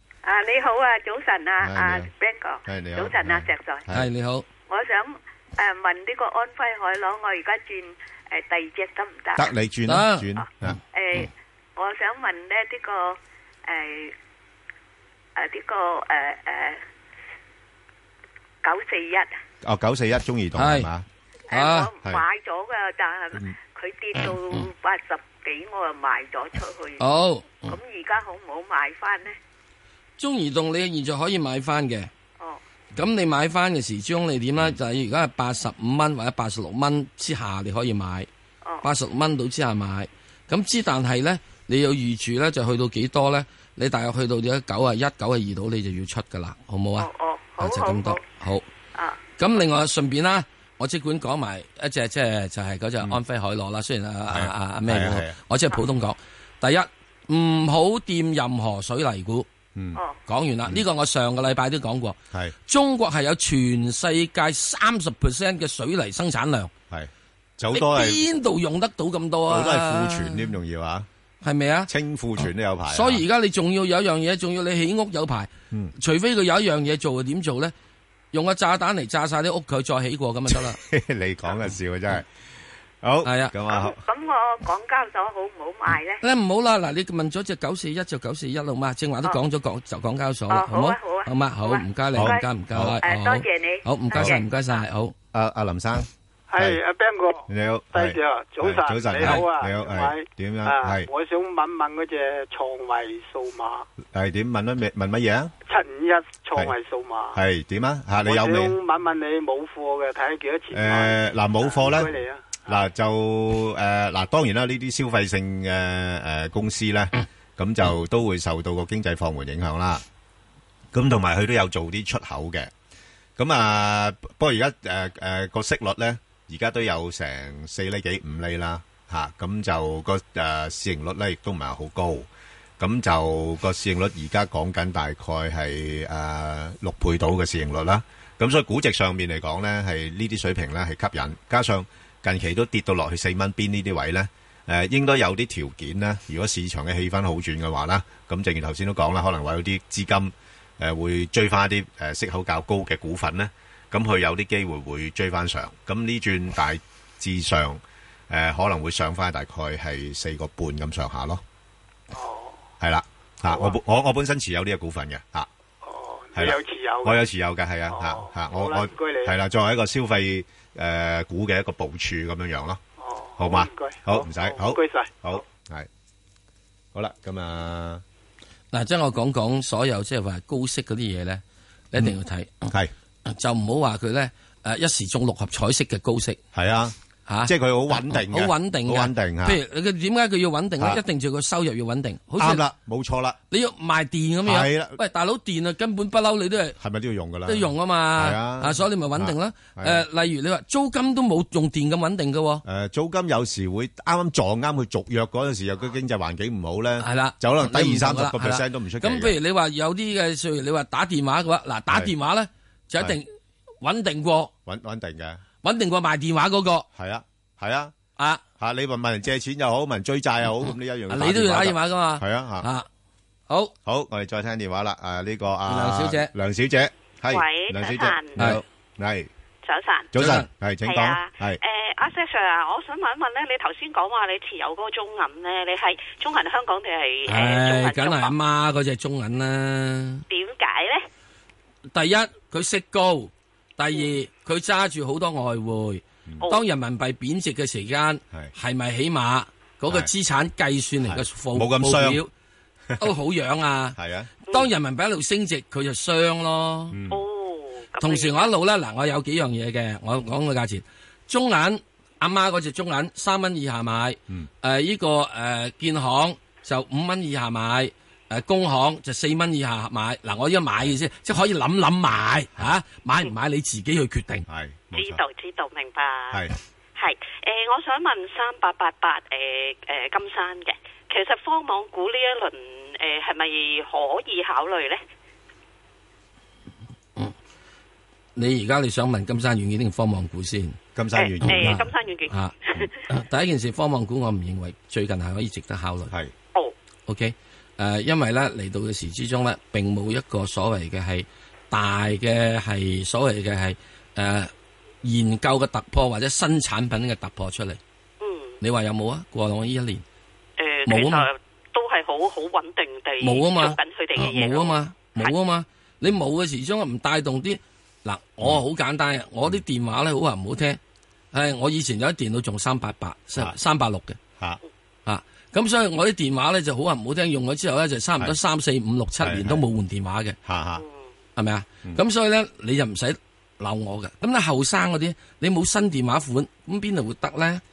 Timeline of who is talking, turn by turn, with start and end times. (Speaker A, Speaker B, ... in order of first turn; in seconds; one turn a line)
Speaker A: 0.2-3.9
Speaker B: 1.6-2.1
Speaker B: 2.6-4.1
Speaker C: 3.9-4.5
Speaker A: 4.7-9.5
Speaker B: 9.4-10.8
Speaker C: 9.9-10.3
Speaker A: 10.9-14.1
Speaker A: 15.3-16.8
Speaker A: 18.6-19.3
Speaker B: 19.6-21.0
Speaker C: 20.6-20.9
Speaker A: 21.5-27.0
Speaker C: 21.5-21.9
Speaker C: 27.0-27.7
Speaker A: 27.6-29.3
Speaker C: 30.2-32.1
Speaker C: 32.9-38.3
Speaker C: 38.8-48.6
Speaker A: 47.0-48.2
Speaker C: 49.4-59.5
Speaker B: 54.3-55.4
Speaker B: 59.7-60.0
Speaker C: 60.2-66.7
Speaker B: 66.9-68.2
Speaker C: 67.7-70.5
Speaker B: 69.5-71.1
Speaker C: 71.4-71.9
Speaker B: 71.9-73.2
Speaker C: 72.9-77.7
Speaker C: 78.3-80.8
Speaker B: 80.5-82.3
Speaker B: 83.0-84.0
Speaker C: 83.2-83.5
Speaker A: 83.7-86.2
Speaker C: 86.2-95.1
Speaker A: 90.5-92.5
Speaker B: 92.1-93.0
Speaker A: 93.0-94.5
Speaker B: 95.3-96.8
Speaker D: 96.5-103.9
Speaker B: 97.5-101.1
Speaker C: 99.2-99.5
Speaker B: 104.1-105.5
Speaker D: 105.7-107.4
Speaker B: 107.3-108.8
Speaker D: 108.2-112.8
Speaker B: 110.7-112.1
Speaker B: 112.7-120.0
Speaker B: 120.9-122.7
Speaker B: 123.4-132.3
Speaker B: 132.8-161.4
Speaker D: 162.1-162.6
Speaker B: 162.8-165.5
Speaker D: 163.5-163.7
Speaker D: 165.8-167.2
Speaker B: 166.3-172.8
Speaker D: 167.9-169.3
Speaker D: 173.0-175.3
Speaker B: 173.4-175.9
Speaker B: 176.9-178.0
Speaker C: 178.7-182.6
Speaker C: 183.3-186.4
Speaker B: 186.5-189.6
Speaker C: 187.3-192.6
Speaker B: 192.4-193.4
Speaker C: 193.5-196.8
Speaker B: 194.4-195.0
Speaker B: 196.8-200.0
Speaker C: 197.4-202.6
Speaker B: 202.6-209.4
Speaker C: 207.0-213.3
Speaker C: 213.8-214.5
Speaker B: 214.6-215.4
Speaker C: 215.6-216.9
Speaker B: 216.9-217.9
Speaker B: 218.6-222.7
Speaker C: 221.1-222.9
Speaker B: 223.8-229.3
Speaker C: 225.7-226.3
Speaker E: 227.3-228.4
Speaker C: 228.4-228.6
Speaker E: 229.6-230.1
Speaker B: 230.1-231.6
Speaker C: 230.2-230.5
Speaker E: 230.8-238.3
Speaker C: 237.3-240.2
Speaker E: 240.3-241.0
Speaker C: 241.9-252.3
Speaker B: 251.0-252.2
Speaker C: 253.0-257.0
Speaker B: 254.0-254.3
Speaker B: 256.9-257.2
Speaker E: 257.1-258.5
Speaker C: 258.0-274.4
Speaker B: 274.5-275.2
Speaker E: 274.9-276.4
Speaker E: 276.9-285.0
Speaker C: 288.4-290.8
Speaker B: 290.9-291.8
Speaker E: 291.1-292.9
Speaker C: 291.4-292.5
Speaker C: 293.1-296.1
Speaker C: 297.1-304.5
Speaker C: 305.0-307.8
Speaker E: 308.2-308.6
Speaker C: 308.6-310.0
Speaker E: 310.6-315.3
Speaker C: 310.9-311.3
Speaker C: 313.2-320.8
Speaker C: 321.3-324.2
Speaker C: 325.1-330.4
Speaker B: 329.2-329.6
Speaker B: 330.4-330.8
Speaker E: 330.8-331.1
Speaker C: 331.4-337.6